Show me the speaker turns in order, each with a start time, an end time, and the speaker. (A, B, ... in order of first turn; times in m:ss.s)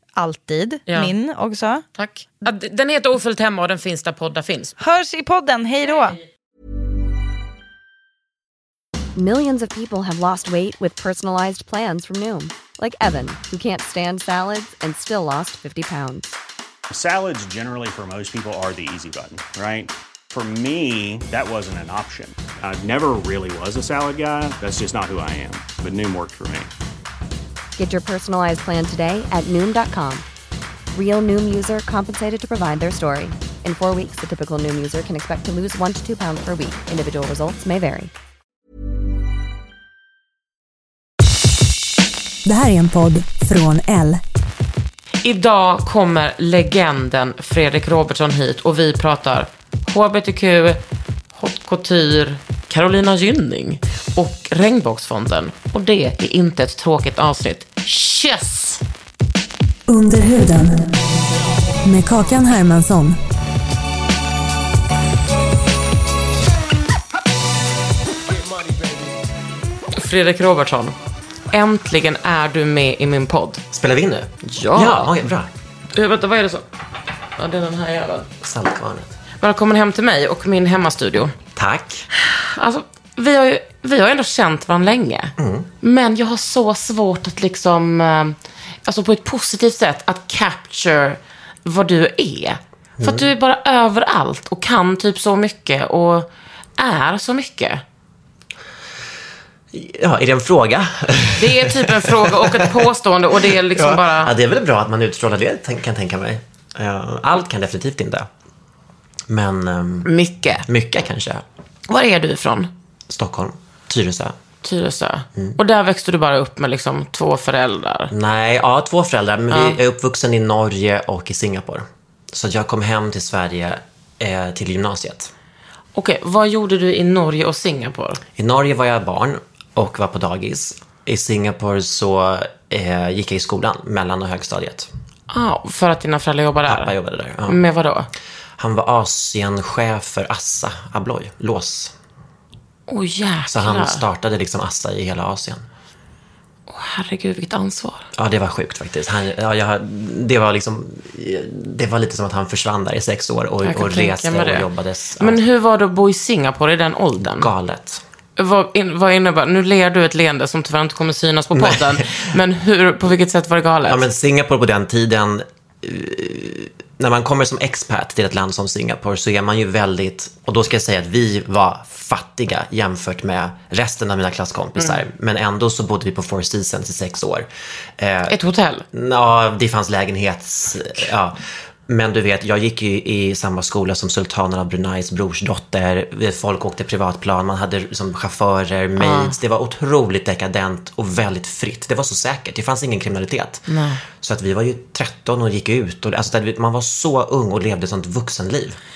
0:00.2-0:01.8 A
0:00.9-0:01.1 B
0:01.9-0:04.7 B
0:04.8-0:06.2 A
0:09.2-0:16.3 C
0:16.9-0:26.7 D
0:27.8-0:30.2 C
0:30.9-0:38.1 C
0:42.4-0:44.2 E
0:45.2-0:50.8 B
0:51.3-0:58.8 B
0:59.9-1:00.8 E
1:01.8-1:03.2 E
1:09.9-1:10.9 B
1:11.5-1:13.6 B
1:13.7-1:15.5 F
1:14.4-1:15.1 B
1:15.9-1:16.6 B
1:17.4-1:18.3 B
1:18.4-1:19.1 F
1:19.4-1:21.3 B
1:21.6-1:22.1 F
1:22.1-1:37.8 B
1:25.4-1:25.7 F
1:33.0-1:33.3 F
1:39.7-1:42.9 F
1:41.4-1:44.3 B
1:43.4-1:48.3 F
1:49.3-1:50.1 F
1:50.0-1:50.6 B
1:50.6-1:51.4 F
1:51.9-1:52.7 B
1:53.1-1:54.3 F
1:54.6-1:58.1 B
1:58.1-2:05.3 F
1:59.5-1:59.8 B
2:05.9-2:08.2 B
2:08.4-2:14.9 F
2:15.3-2:16.9 B
2:16.7-2:17.6 F
2:17.4-2:18.1 B
2:18.6-2:21.9 F
2:22.9-2:24.0 B
2:23.5-2:25.6 F
2:26.7-2:28.1 B
2:28.1-2:35.4 F
2:33.6-2:34.7 B
2:35.2-2:37.5 B
2:37.2-2:38.0 F
2:38.4-2:44.0 B
2:41.5-2:42.3 F
2:43.9-2:58.4 F
2:58.3-2:58.8 B
2:58.9-3:18.8 F
3:09.0-3:09.4 B
3:13.7-3:14.0 B